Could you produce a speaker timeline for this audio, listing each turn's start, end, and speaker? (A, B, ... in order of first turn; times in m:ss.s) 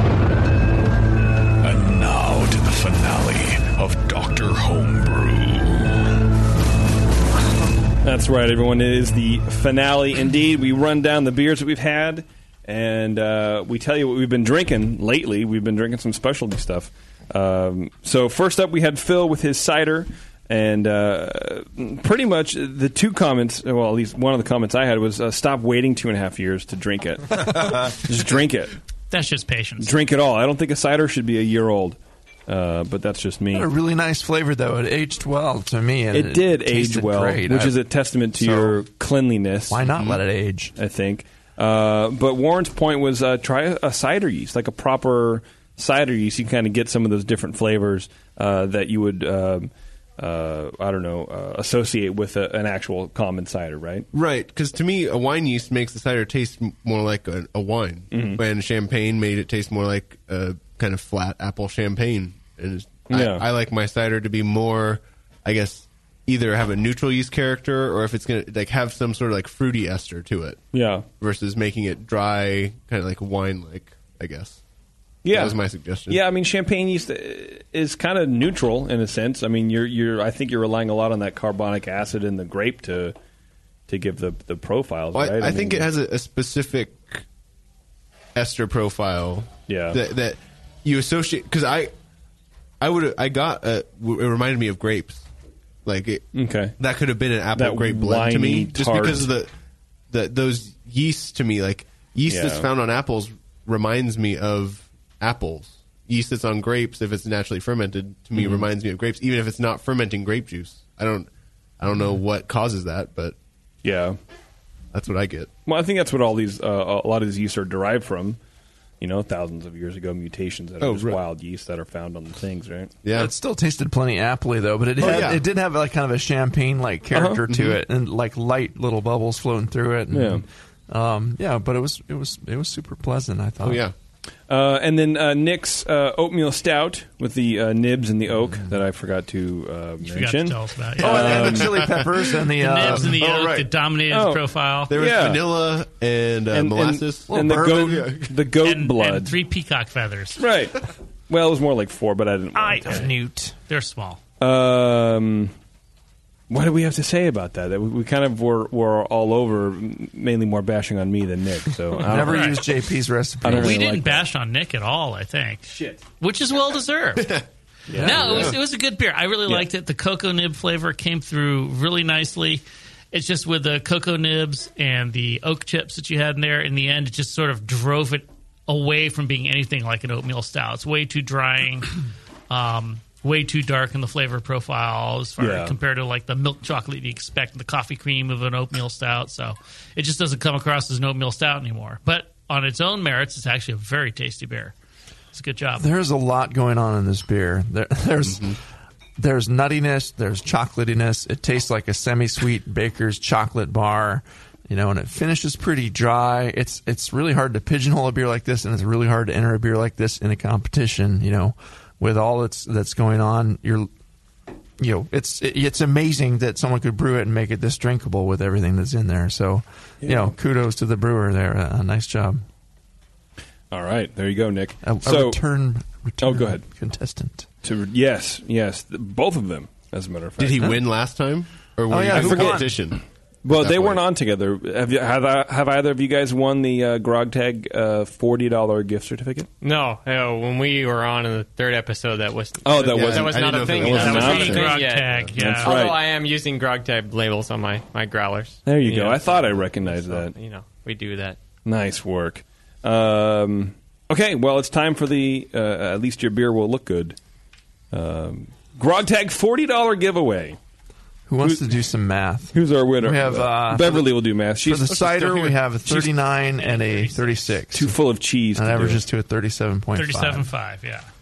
0:01.6-0:05.7 A
0:08.0-0:28.7 B
0:29.1-0:29.9 C
0:29.8-0:33.7 B
0:33.5-0:37.8 D
0:36.1-0:39.9 B
0:38.3-0:38.8 D
0:39.7-0:40.7 D
0:40.8-0:54.1 B
0:54.1-1:10.6 E
0:58.1-0:58.4 B
1:03.1-1:03.4 B
1:10.7-1:11.0 B
1:11.2-1:14.6 E
1:15.2-1:23.1 B
1:15.3-1:16.2 E
1:23.9-1:25.9 B
1:25.1-1:27.2 E
1:28.3-1:31.9 E
1:29.7-1:30.0 B
1:32.8-1:35.2 E
1:35.8-1:36.2 E
1:36.3-1:36.8 B
1:36.8-1:39.5 E
1:37.5-1:39.3 B
1:40.1-1:51.3 E
1:42.3-1:42.7 B
1:51.8-1:53.3 E
1:53.8-1:54.2 B
1:54.9-1:55.5 E
1:55.6-1:58.4 B
1:59.0-2:02.9 B
2:00.8-2:01.2 E
2:03.0-2:03.3 E
2:03.1-2:13.8 D
2:05.0-2:05.4 E
2:07.1-2:07.4 B
2:07.5-2:07.8 E
2:10.1-2:10.4 B
2:13.6-2:13.9 E
2:14.5-2:21.8 B
2:20.0-2:21.5 C
2:21.0-2:23.2 D
2:21.0-2:22.0 E
2:22.6-2:24.9 C
2:22.8-2:23.7 E
2:24.1-2:25.4 B
2:24.9-2:28.3 E
2:26.5-2:29.4 B
2:27.3-2:28.1 D
2:28.6-2:30.4 C
2:30.4-2:30.8 B
2:31.3-2:33.1 B
2:32.6-2:33.5 D
2:33.7-2:34.2 C
2:34.4-2:35.5 B
2:36.5-2:42.7 B
2:42.0-2:44.0 D
2:42.2-2:42.6 C
2:43.4-2:44.2 B
2:43.5-2:47.4 C
2:47.9-2:48.6 B
2:48.0-2:48.5 D
2:48.0-3:02.0 C
2:48.2-2:48.5 E
3:02.5-3:14.7 C
3:05.4-3:05.7 B
3:15.3-3:15.9 C
3:15.8-3:18.6 D
3:19.2-3:33.9 D
3:34.8-3:42.4 D
3:40.0-3:40.3 B
3:43.7-3:45.4 B
3:44.8-3:47.5 D
3:46.2-3:46.6 B
3:47.6-3:50.8 B
3:50.4-3:54.0 E
3:51.9-3:52.7 D
3:52.1-3:52.7 B
3:53.4-3:59.5 B
3:59.6-4:11.4 F
4:02.6-4:04.8 B
4:02.8-4:05.3 E
4:04.0-4:05.7 C
4:05.3-4:06.0 B
4:08.6-4:10.3 B
4:11.6-4:17.2 B
4:17.9-4:20.6 B
4:21.3-4:28.0 D
4:22.5-4:25.2 B
4:25.2-4:25.5 E
4:26.6-4:27.4 C
4:27.7-4:29.0 B
4:28.5-4:30.5 D
4:29.9-4:31.1 C